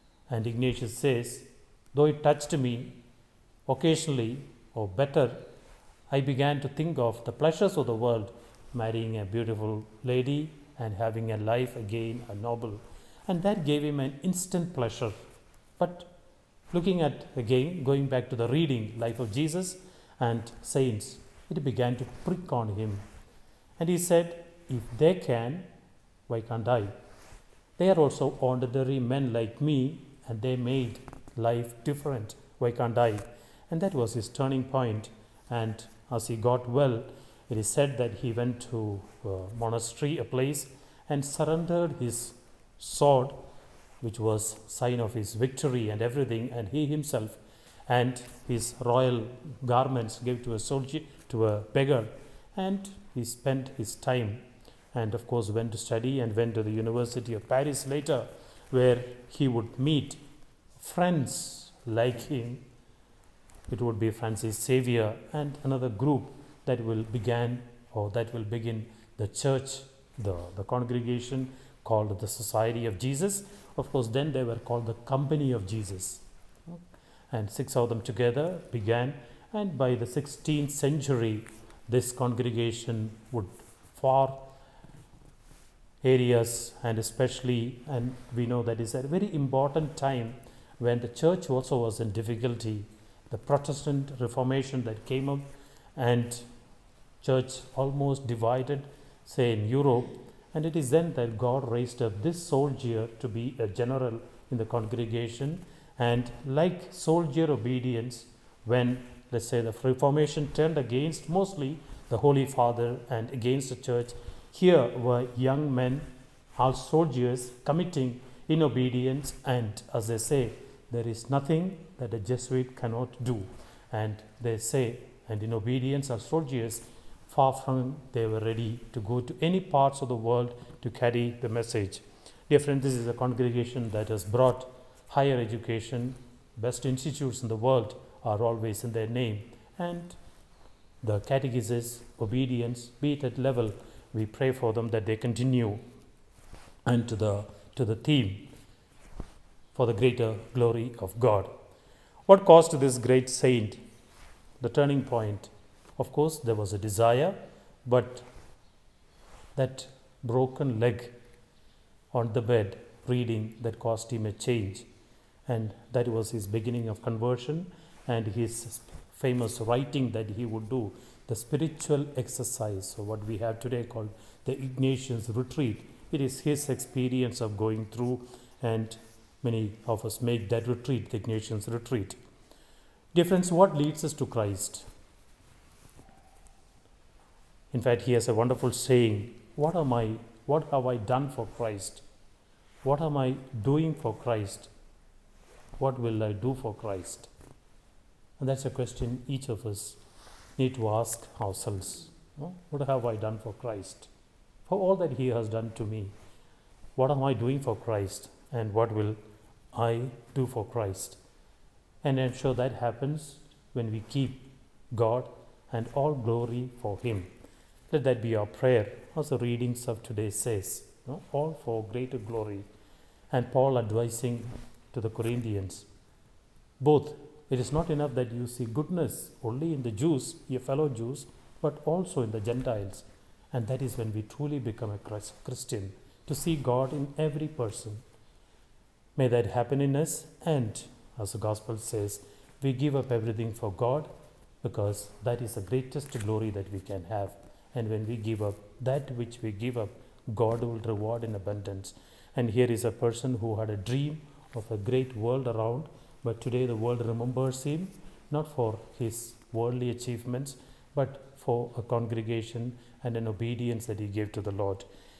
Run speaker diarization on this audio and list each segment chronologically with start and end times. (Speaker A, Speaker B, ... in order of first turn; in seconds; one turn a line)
Speaker A: 0.3-3.0
Speaker A: 3.7-5.4
Speaker A: 6.1-15.2
Speaker A: 15.8-16.1
Speaker A: 16.7-23.1
Speaker A: 23.8-25.7
Speaker A: 26.3-27.0
Speaker A: 27.8-43.4
Speaker A: 44.0-60.2
Speaker A: 60.8-62.7
Speaker A: 63.7-84.5
Speaker A: 86.0-96.5
Speaker A: 97.2-140.2
Speaker A: 141.0-145.8
Speaker A: 146.8-148.5
Speaker A: 149.7-151.5
Speaker A: 152.3-153.8
Speaker A: 154.6-158.3
Speaker A: 159.6-161.2
Speaker A: 162.1-164.9
Speaker A: 165.5-182.2
Speaker A: 183.1-184.9
Speaker A: 187.7-192.0
Speaker A: 192.8-194.7
Speaker A: 195.8-197.3
Speaker A: 198.4-200.0
Speaker A: 200.6-204.1
Speaker A: 204.7-206.1
Speaker A: 207.0-209.2
Speaker A: 209.7-211.2
Speaker A: 212.0-217.3
Speaker A: 217.9-222.7
Speaker A: 223.3-225.9
Speaker A: 226.8-238.0
Speaker A: 239.2-244.1
Speaker A: 244.6-264.9